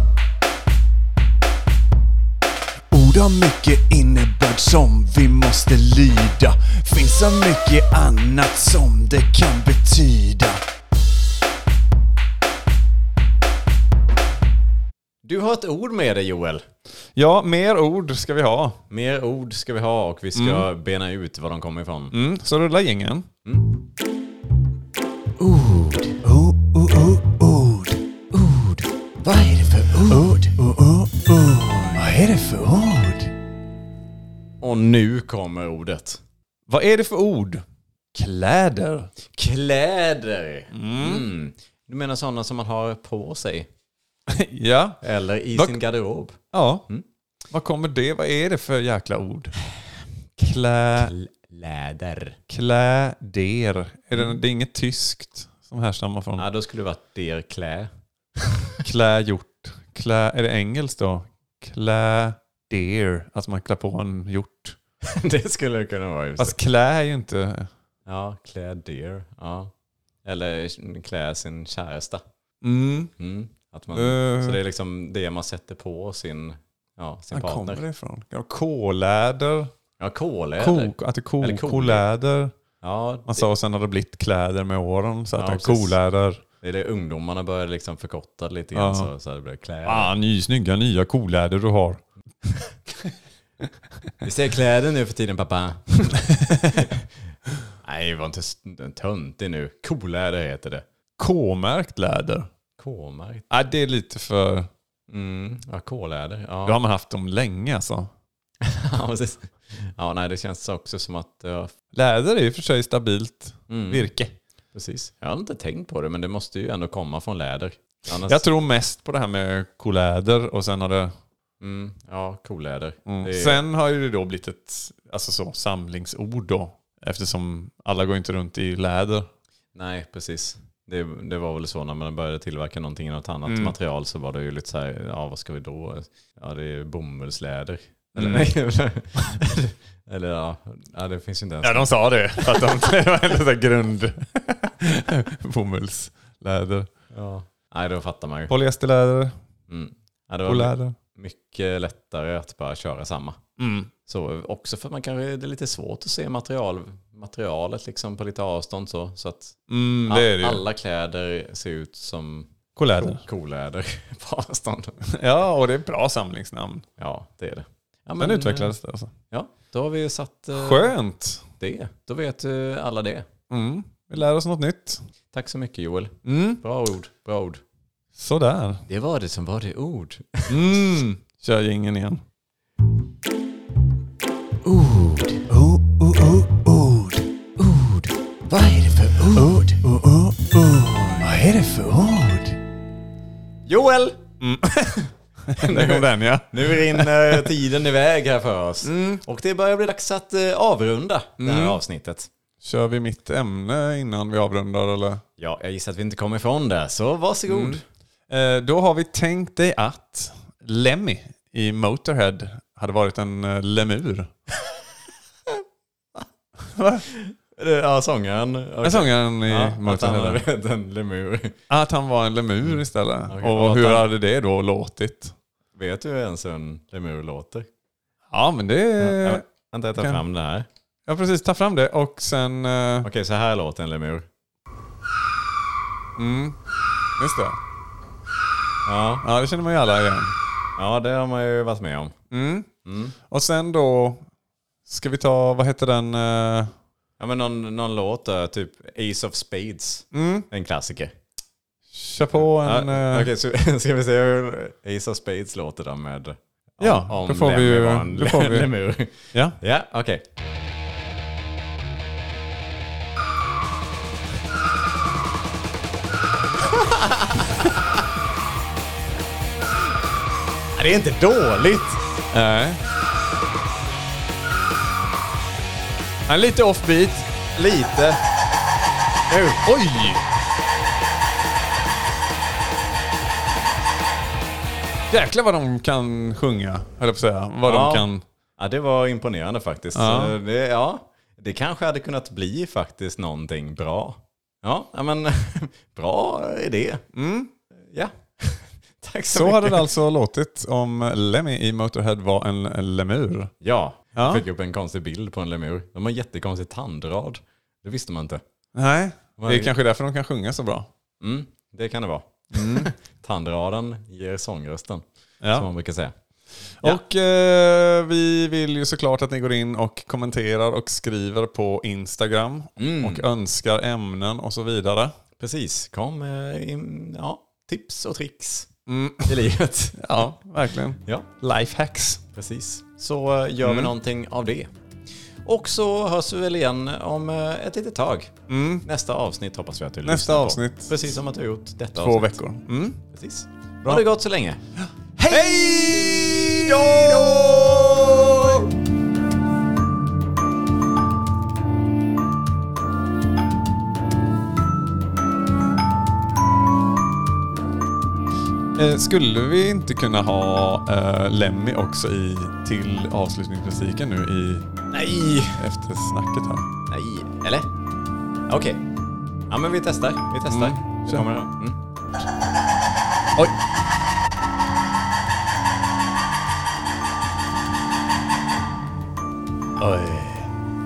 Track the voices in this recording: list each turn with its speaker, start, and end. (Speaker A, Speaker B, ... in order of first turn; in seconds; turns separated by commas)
Speaker A: 2.9-10.6, Speaker B: 15.2-16.6, Speaker C: 17.1-18.8, Speaker B: 18.9-22.1, Speaker C: 20.3-20.7, Speaker C: 22.1-23.3, Speaker B: 23.4-23.7, Speaker B: 25.4-26.2, Speaker A: 26.2-28.5, Speaker A: 29.2-33.3, Speaker B: 34.6-36.2, Speaker C: 36.7-37.6, Speaker C: 38.1-39.1, Speaker B: 39.3-43.7, Speaker C: 40.7-41.3, Speaker C: 44.3-45.0, Speaker B: 45.0-47.0, Speaker C: 45.5-45.8, Speaker C: 46.5-46.8, Speaker C: 47.5-49.5, Speaker C: 50.4-51.1, Speaker B: 51.0-52.4, Speaker C: 52.5-56.5, Speaker B: 56.4-58.8, Speaker C: 58.8-64.8, Speaker B: 65.0-66.6, Speaker C: 66.4-67.7, Speaker B: 68.0-69.7, Speaker B: 70.2-72.2, Speaker C: 72.6-73.1, Speaker B: 73.2-77.8, Speaker C: 73.9-74.6, Speaker C: 77.3-79.7, Speaker B: 80.0-82.0, Speaker C: 80.6-82.5, Speaker B: 82.8-83.4, Speaker C: 83.3-86.4, Speaker B: 85.3-86.0, Speaker B: 86.6-90.1, Speaker C: 88.7-89.1, Speaker C: 89.8-92.0, Speaker B: 94.2-97.1, Speaker C: 96.2-96.9, Speaker B: 97.8-100.8, Speaker C: 101.2-102.5, Speaker B: 102.8-103.5, Speaker C: 103.5-104.7, Speaker B: 105.1-106.8, Speaker C: 106.7-108.1, Speaker B: 108.6-111.7, Speaker C: 111.9-114.3, Speaker B: 113.7-114.1, Speaker B: 114.7-118.4, Speaker C: 118.2-121.1, Speaker B: 121.6-123.6, Speaker C: 123.0-129.2, Speaker B: 129.7-142.9, Speaker C: 133.4-133.7, Speaker C: 138.2-138.5, Speaker C: 141.6-146.9, Speaker B: 147.1-148.5, Speaker C: 148.5-149.3, Speaker B: 149.7-153.4, Speaker C: 150.4-150.9, Speaker C: 153.6-153.9, Speaker B: 154.1-165.0, Speaker C: 159.7-160.6, Speaker C: 162.8-163.2, Speaker C: 165.1-166.8, Speaker B: 167.0-168.7, Speaker C: 168.2-169.1, Speaker B: 169.3-170.9, Speaker C: 170.5-171.4, Speaker B: 171.6-173.3, Speaker C: 173.5-175.0, Speaker B: 175.3-177.6, Speaker C: 176.2-176.6, Speaker C: 178.2-178.8, Speaker B: 178.9-180.8, Speaker C: 180.5-182.2, Speaker B: 184.6-185.4, Speaker A: 185.5-187.2, Speaker B: 187.6-189.5, Speaker A: 189.0-192.6, Speaker B: 193.7-194.2, Speaker C: 194.4-197.5, Speaker B: 195.6-202.3, Speaker C: 198.8-199.2, Speaker C: 201.4-201.8, Speaker C: 202.6-205.2, Speaker B: 205.4-207.8, Speaker C: 207.5-214.3, Speaker C: 216.7-217.0, Speaker B: 217.1-221.6, Speaker C: 218.8-220.4, Speaker C: 221.7-225.3, Speaker B: 222.6-224.1, Speaker B: 225.7-227.7, Speaker C: 228.3-229.4, Speaker B: 229.0-230.7, Speaker C: 229.9-230.2, Speaker C: 231.1-233.1, Speaker B: 233.0-234.3, Speaker C: 236.2-236.6, Speaker C: 237.2-237.6, Speaker B: 238.8-239.2, Speaker C: 239.2-240.3, Speaker B: 240.8-242.1, Speaker C: 242.3-242.7, Speaker B: 242.8-243.2, Speaker C: 243.2-244.2, Speaker C: 244.9-246.7, Speaker B: 247.2-251.2, Speaker C: 250.1-250.5, Speaker C: 251.9-253.3, Speaker B: 252.4-260.2, Speaker C: 256.8-258.7, Speaker C: 259.2-259.6, Speaker B: 266.7-267.6, Speaker B: 270.7-272.0, Speaker C: 272.3-272.8, Speaker C: 276.3-277.3, Speaker B: 277.5-278.2, Speaker C: 279.3-280.2, Speaker C: 285.1-288.2, Speaker B: 287.6-297.0, Speaker C: 289.9-290.4, Speaker C: 297.1-297.5, Speaker B: 297.9-299.9, Speaker C: 299.3-303.5, Speaker B: 303.6-308.4, Speaker C: 304.1-304.4, Speaker C: 308.7-310.9, Speaker B: 309.4-309.7, Speaker B: 311.2-316.1, Speaker C: 312.5-312.9, Speaker C: 315.4-315.7, Speaker C: 316.8-325.1, Speaker B: 322.8-323.2, Speaker B: 325.4-328.7, Speaker C: 328.9-329.4, Speaker B: 329.2-330.2, Speaker C: 330.0-332.2, Speaker B: 332.3-334.7, Speaker C: 333.6-333.9, Speaker B: 335.4-342.4, Speaker C: 338.5-338.8, Speaker C: 340.0-341.1, Speaker C: 341.9-343.0, Speaker B: 343.1-344.6, Speaker B: 345.2-345.9, Speaker C: 345.3-348.6, Speaker B: 346.6-348.1, Speaker C: 358.7-364.7, Speaker B: 364.9-365.6, Speaker C: 365.6-366.7, Speaker B: 366.9-367.7, Speaker B: 368.5-368.8, Speaker B: 369.5-371.8, Speaker C: 370.5-371.3, Speaker C: 379.8-380.5